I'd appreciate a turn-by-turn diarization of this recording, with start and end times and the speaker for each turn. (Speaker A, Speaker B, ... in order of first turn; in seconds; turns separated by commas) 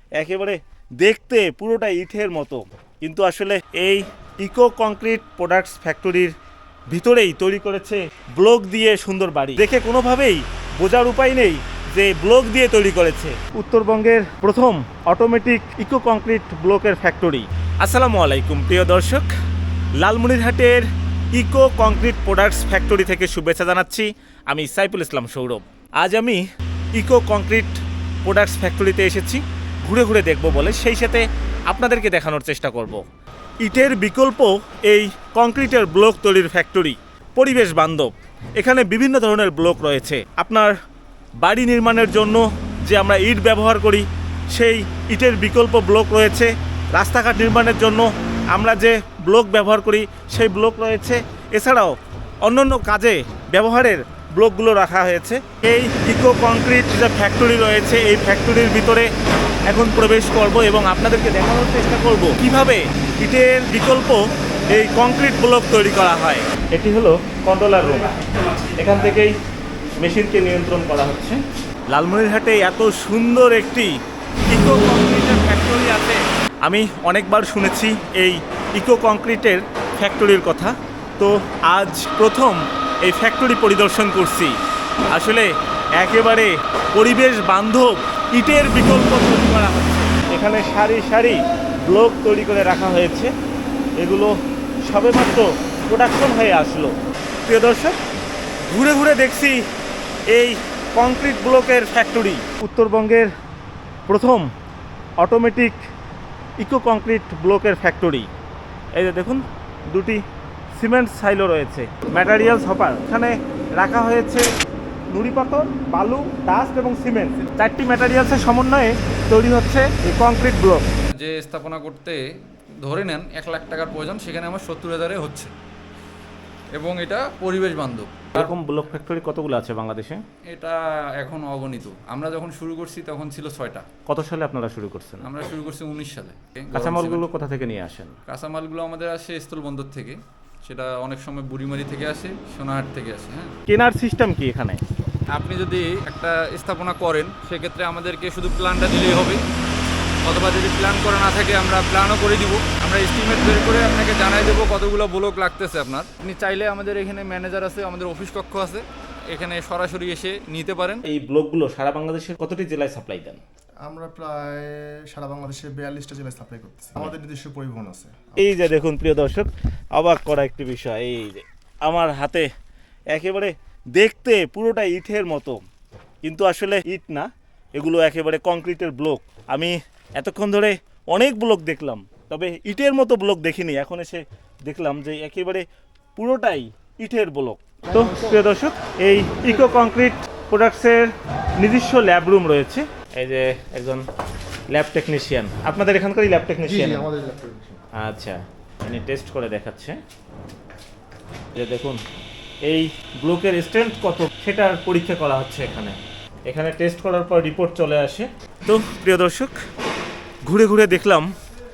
Speaker A: 0.2-6.3, Speaker A: 6.9-19.3, Speaker A: 20.0-26.4, Speaker A: 26.9-33.0, Speaker A: 33.6-40.7, Speaker A: 41.4-59.1, Speaker A: 59.7-68.1, Speaker A: 68.8-69.3, Speaker A: 70.0-74.0, Speaker A: 74.5-84.6, Speaker A: 85.1-93.3, Speaker A: 94.0-94.3, Speaker A: 94.8-96.9, Speaker A: 97.5-98.0, Speaker A: 98.7-99.6, Speaker A: 100.3-103.3, Speaker A: 104.1-104.5, Speaker A: 105.2-105.8, Speaker A: 106.6-108.3, Speaker A: 109.0-110.2, Speaker A: 110.8-114.5, Speaker A: 115.1-120.9, Speaker B: 121.1-122.2, Speaker B: 122.8-125.5, Speaker B: 126.7-128.5, Speaker A: 128.3-130.2, Speaker B: 130.5-133.8, Speaker A: 134.1-135.3, Speaker B: 135.2-137.3, Speaker A: 136.7-138.2, Speaker B: 138.3-143.5, Speaker A: 143.7-144.8, Speaker B: 145.3-149.4, Speaker B: 150.2-161.0, Speaker A: 161.1-163.4, Speaker C: 163.8-168.3, Speaker A: 168.4-172.5, Speaker A: 173.1-175.6, Speaker A: 176.2-185.7, Speaker A: 186.2-194.0, Speaker C: 188.0-188.3, Speaker A: 194.7-197.1, Speaker C: 196.7-197.8, Speaker A: 197.9-200.0, Speaker A: 201.6-202.0, Speaker A: 202.7-209.6, Speaker A: 210.5-211.3